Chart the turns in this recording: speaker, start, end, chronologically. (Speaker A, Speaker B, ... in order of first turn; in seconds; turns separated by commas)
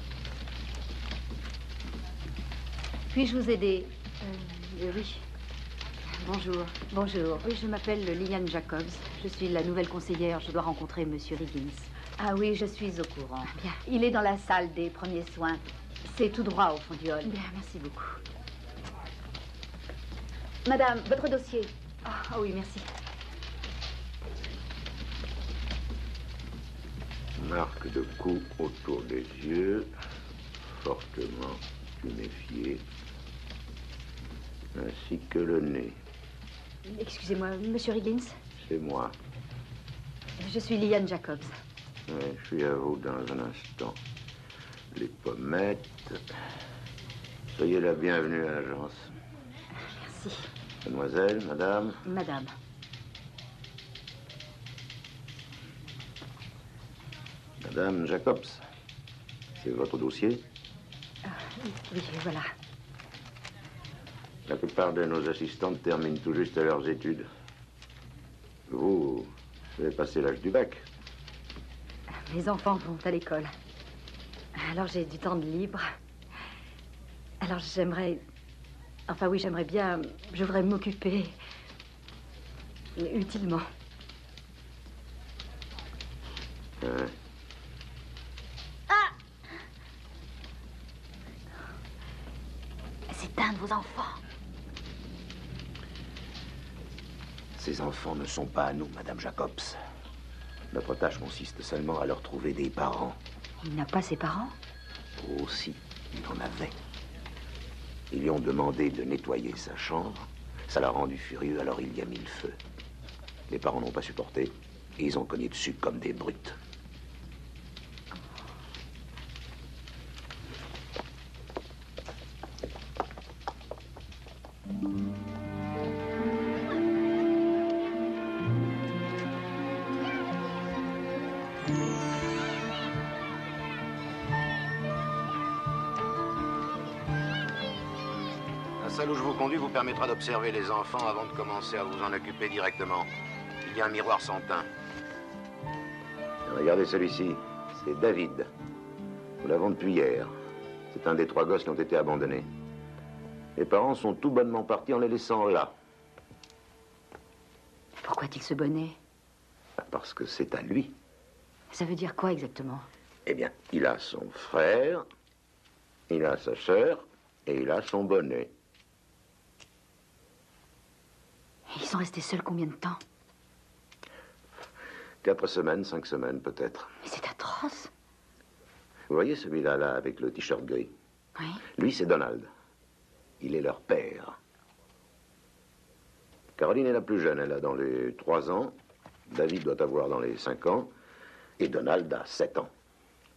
Speaker A: 3.1-5.2, Speaker A: 6.1-13.9, Speaker B: 6.9-7.4, Speaker B: 13.8-14.7, Speaker B: 16.1-17.2, Speaker A: 17.2-18.2, Speaker B: 20.6-21.7, Speaker A: 22.0-22.9, Speaker C: 27.4-29.9, Speaker C: 30.8-32.8, Speaker C: 34.7-36.0, Speaker A: 36.9-38.4, Speaker C: 38.6-39.1, Speaker A: 40.4-41.5, Speaker C: 42.1-44.0, Speaker C: 44.9-46.2, Speaker C: 47.5-49.1, Speaker A: 49.9-50.5, Speaker C: 50.8-52.0, Speaker A: 52.0-52.5, Speaker C: 57.6-58.6, Speaker C: 59.6-60.4, Speaker A: 61.2-62.5, Speaker C: 64.5-67.3, Speaker C: 68.7-70.8, Speaker A: 72.2-73.5, Speaker A: 74.5-75.8, Speaker A: 77.4-78.2, Speaker A: 79.1-81.3, Speaker A: 83.0-83.7, Speaker C: 86.8-87.1, Speaker A: 93.1-94.2, Speaker C: 97.6-99.8, Speaker C: 100.7-103.2, Speaker A: 103.6-104.5, Speaker C: 105.2-106.8, Speaker C: 108.1-112.6, Speaker C: 113.5-116.6, Speaker C: 138.8-144.7, Speaker C: 146.4-148.5, Speaker C: 149.4-150.3, Speaker C: 150.9-152.5, Speaker C: 153.6-155.7, Speaker A: 158.0-159.0, Speaker C: 159.8-160.9, Speaker A: 161.7-162.9, Speaker C: 163.2-165.0, Speaker C: 166.1-168.5, Speaker A: 171.7-173.0, Speaker C: 175.2-176.9, Speaker A: 177.0-177.9, Speaker C: 179.1-180.9, Speaker A: 181.3-181.6, Speaker C: 181.8-182.5, Speaker C: 183.4-184.4, Speaker C: 186.6-188.8, Speaker C: 189.3-190.9, Speaker C: 191.6-192.7